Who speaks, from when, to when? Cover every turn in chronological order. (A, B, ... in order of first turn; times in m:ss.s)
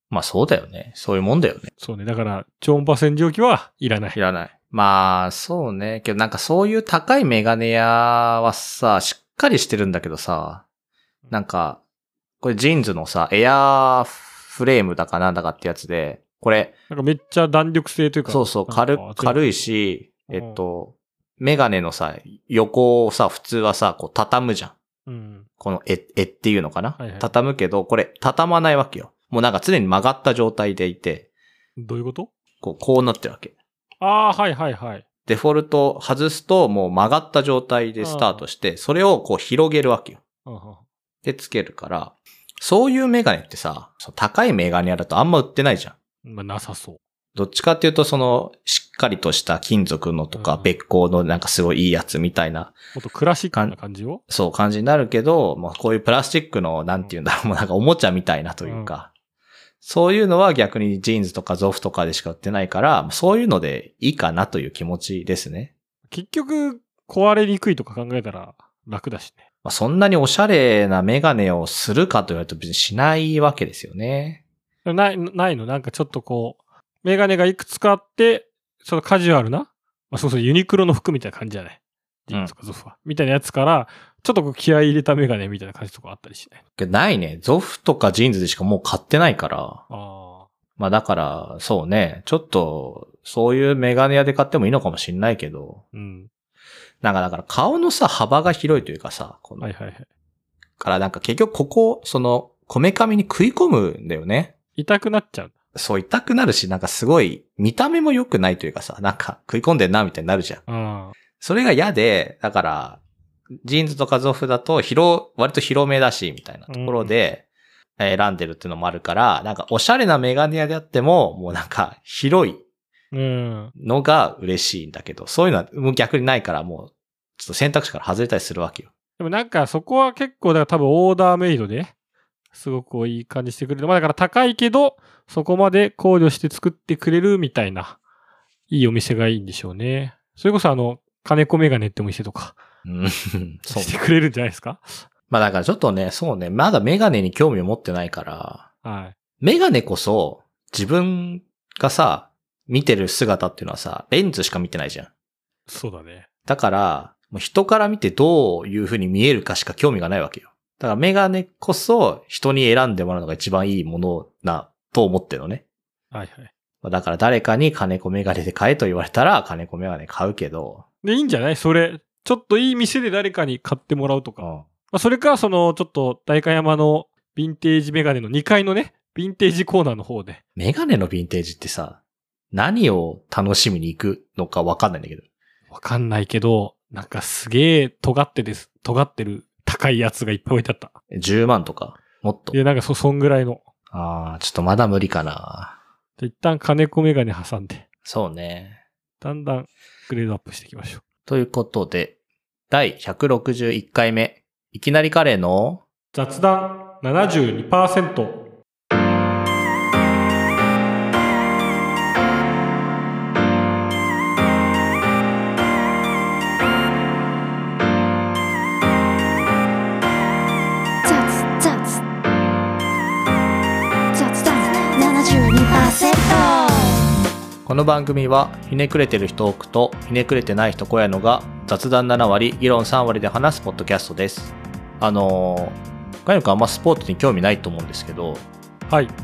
0:00.1-0:01.7 A
0:01.8-0:04.2 B
0:04.1-0:10.6 A
0:11.3-0:11.8 A
0:12.4-0:16.7 A
0:16.9-0:19.4 B
0:18.3-0:24.7 A
0:20.3-0:20.6 B
0:25.0-0:25.5 B
0:25.6-0:31.3 A
0:27.0-0:27.3 B
0:31.8-0:32.3 B
0:32.6-0:33.5 A
0:34.0-0:35.0 B
0:35.2-0:40.2 A
0:38.0-0:38.4 B
0:40.4-0:40.8 B
0:41.2-0:45.9 A
0:46.2-0:47.0 B
0:47.3-0:52.8 A
0:50.3-0:50.7 B
0:52.9-0:54.2 B
0:54.3-0:59.1 A
0:58.6-0:58.9 B
0:59.8-1:05.7 A
1:06.1-1:09.4 B
1:09.6-1:14.4 A
1:14.8-1:26.6 B
1:26.8-1:29.8 A
1:29.9-1:30.5 B
1:30.8-1:35.8 A
1:35.9-1:36.3 B
1:37.0-1:39.7 A
1:39.6-1:40.1 B
1:40.8-1:44.5 A
1:44.8-1:45.5 B
1:45.7-1:50.6 A
1:50.7-1:51.1 B
1:51.4-1:53.0 A
1:53.6-1:57.4 A
1:56.7-1:57.1 B
1:58.0-2:02.6 A
2:03.1-2:03.7 B
2:03.8-2:08.9 A
2:09.2-2:11.9 B
2:12.5-2:18.0 B
2:18.7-2:22.6 B
2:22.8-2:24.0 A
2:23.7-2:25.0 B
2:25.3-2:28.7 A
2:28.8-2:29.2 B
2:29.4-2:35.1 A
2:35.7-2:36.3 B
2:36.4-2:45.6 A
2:46.1-2:46.5 B
2:46.8-2:50.8 A
2:51.0-3:00.4 B
2:54.4-2:54.6 A
3:00.6-3:02.0 A
3:02.5-3:05.2 A
3:05.7-3:10.9 B
3:11.1-3:12.6 A
3:12.5-3:13.6 B
3:13.9-3:15.8 A
3:16.2-3:17.8 B
3:18.0-3:18.8 A
3:19.2-3:21.0 B
3:21.2-3:22.1 A
3:22.7-3:25.8 A
3:26.1-3:28.4 B
3:41.0-3:42.0 C
3:44.1-3:47.0 C
3:47.6-3:58.4 A
3:58.9-3:59.1 B